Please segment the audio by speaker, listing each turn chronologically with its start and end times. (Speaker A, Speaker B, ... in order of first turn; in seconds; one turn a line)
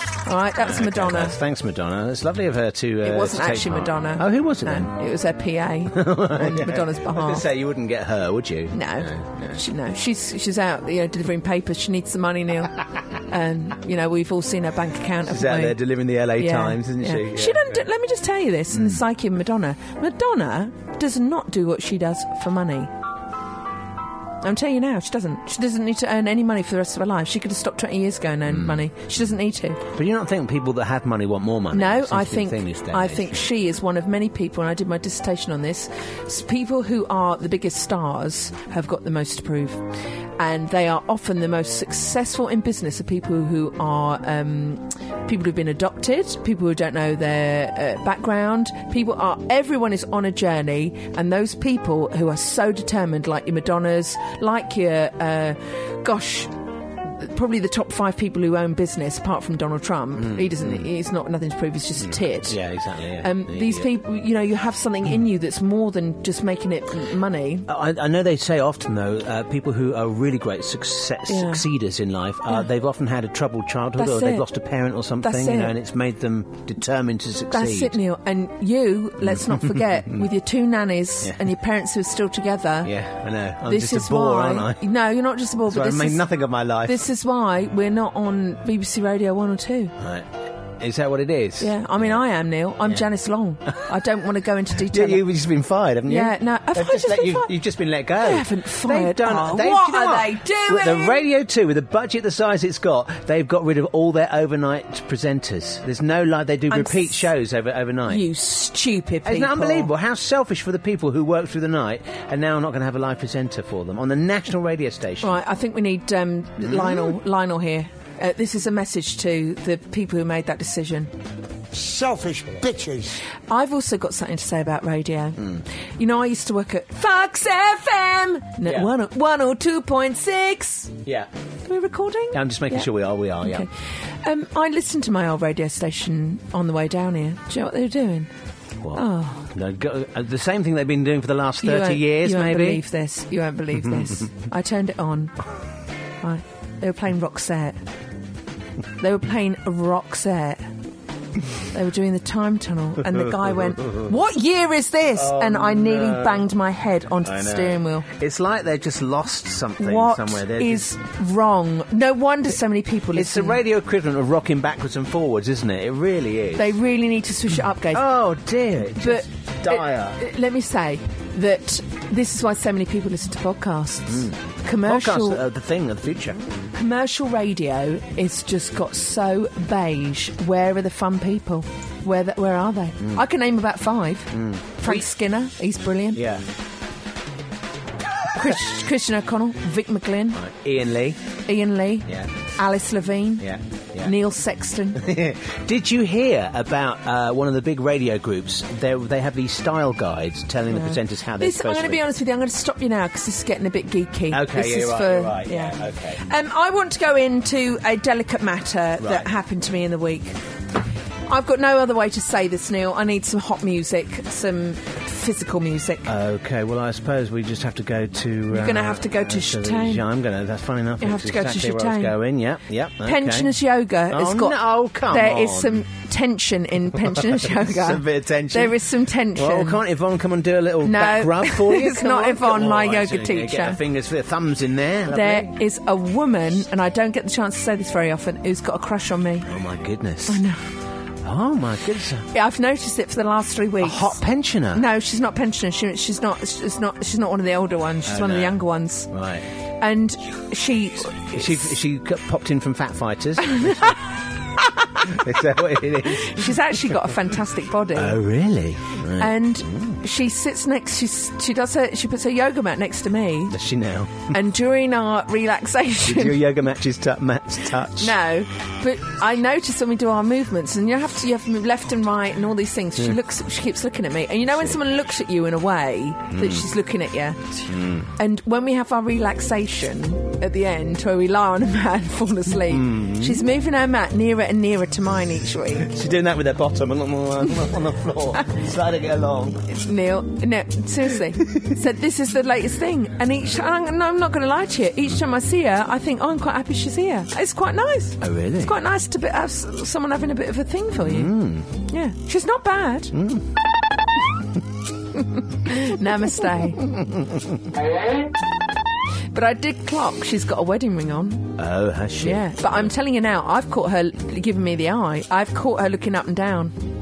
Speaker A: 0.2-1.4
Speaker B: 0.6-4.9
Speaker A: 3.0-7.5
Speaker B: 5.9-9.6
Speaker A: 8.7-12.8
Speaker A: 13.3-15.8
Speaker B: 15.3-17.8
Speaker A: 16.3-22.9
Speaker B: 18.7-19.0
Speaker A: 24.4-29.8
Speaker B: 28.5-28.9
Speaker B: 29.9-33.5
Speaker A: 31.7-39.8
Speaker A: 40.4-56.5
Speaker A: 57.1-62.6
Speaker B: 60.2-60.9
Speaker B: 62.0-63.9
Speaker A: 63.2-67.7
Speaker B: 67.7-78.0
Speaker A: 71.3-71.6
Speaker A: 74.0-74.5
Speaker A: 75.2-75.7
Speaker A: 77.5-82.9
Speaker B: 79.2-80.2
Speaker B: 81.2-81.5
Speaker B: 82.8-84.8
Speaker A: 83.7-86.2
Speaker B: 85.7-87.0
Speaker A: 86.8-89.9
Speaker B: 90.0-92.2
Speaker A: 91.6-95.2
Speaker B: 94.8-108.2
Speaker A: 96.1-97.5
Speaker A: 98.2-101.3
Speaker A: 106.7-107.2
Speaker A: 108.1-109.9
Speaker B: 109.2-115.4
Speaker A: 115.2-121.1
Speaker B: 116.6-117.2
Speaker B: 121.9-122.8
Speaker A: 123.5-131.0
Speaker B: 128.7-128.9
Speaker A: 131.7-132.9
Speaker B: 132.3-133.7
Speaker A: 133.4-133.7
Speaker A: 134.2-138.3
Speaker B: 138.8-142.8
Speaker A: 138.9-139.5
Speaker A: 141.6-145.3
Speaker B: 143.8-144.3
Speaker A: 146.2-147.8
Speaker A: 149.0-150.7
Speaker A: 151.7-158.1
Speaker B: 155.2-156.5
Speaker B: 157.2-160.9
Speaker A: 159.8-163.6
Speaker B: 163.1-166.7
Speaker A: 166.6-168.1
Speaker B: 167.9-170.2
Speaker A: 169.0-175.4
Speaker B: 174.1-176.4
Speaker A: 176.7-186.2
Speaker B: 184.3-185.1
Speaker B: 186.1-186.4
Speaker A: 188.3-190.4
Speaker B: 190.3-191.2
Speaker A: 191.5-193.5
Speaker B: 193.4-194.2
Speaker A: 194.0-195.1
Speaker B: 195.0-202.1
Speaker A: 200.7-210.4
Speaker B: 204.3-206.2
Speaker B: 209.0-209.3
Speaker A: 211.3-216.1
Speaker B: 216.1-223.6
Speaker A: 218.5-220.0
Speaker A: 221.0-222.2
Speaker A: 223.0-229.8
Speaker B: 224.1-225.8
Speaker B: 227.1-228.8
Speaker B: 229.3-235.5
Speaker A: 230.8-233.8
Speaker A: 235.1-239.5
Speaker B: 239.5-240.4
Speaker A: 240.3-240.6
Speaker B: 241.2-242.3
Speaker A: 242.3-244.2
Speaker B: 243.8-244.9
Speaker A: 244.7-249.1
Speaker B: 248.1-248.6
Speaker B: 249.1-249.5
Speaker A: 249.8-251.7
Speaker B: 251.3-253.9
Speaker A: 253.5-253.8
Speaker B: 255.0-256.6
Speaker A: 256.0-258.2
Speaker B: 257.9-260.0
Speaker A: 259.2-263.6
Speaker B: 263.5-264.3
Speaker A: 264.3-266.4
Speaker B: 266.0-268.1
Speaker A: 268.0-277.6
Speaker B: 276.3-276.7
Speaker B: 277.7-278.1
Speaker A: 278.2-285.9
Speaker B: 282.6-283.5
Speaker B: 285.8-289.6
Speaker A: 289.7-301.3
Speaker B: 298.2-298.8
Speaker B: 300.9-301.7
Speaker A: 301.9-303.1
Speaker B: 303.1-303.5
Speaker A: 305.2-306.9
Speaker B: 306.8-307.6
Speaker A: 309.3-311.6
Speaker B: 311.6-312.9
Speaker A: 312.2-316.8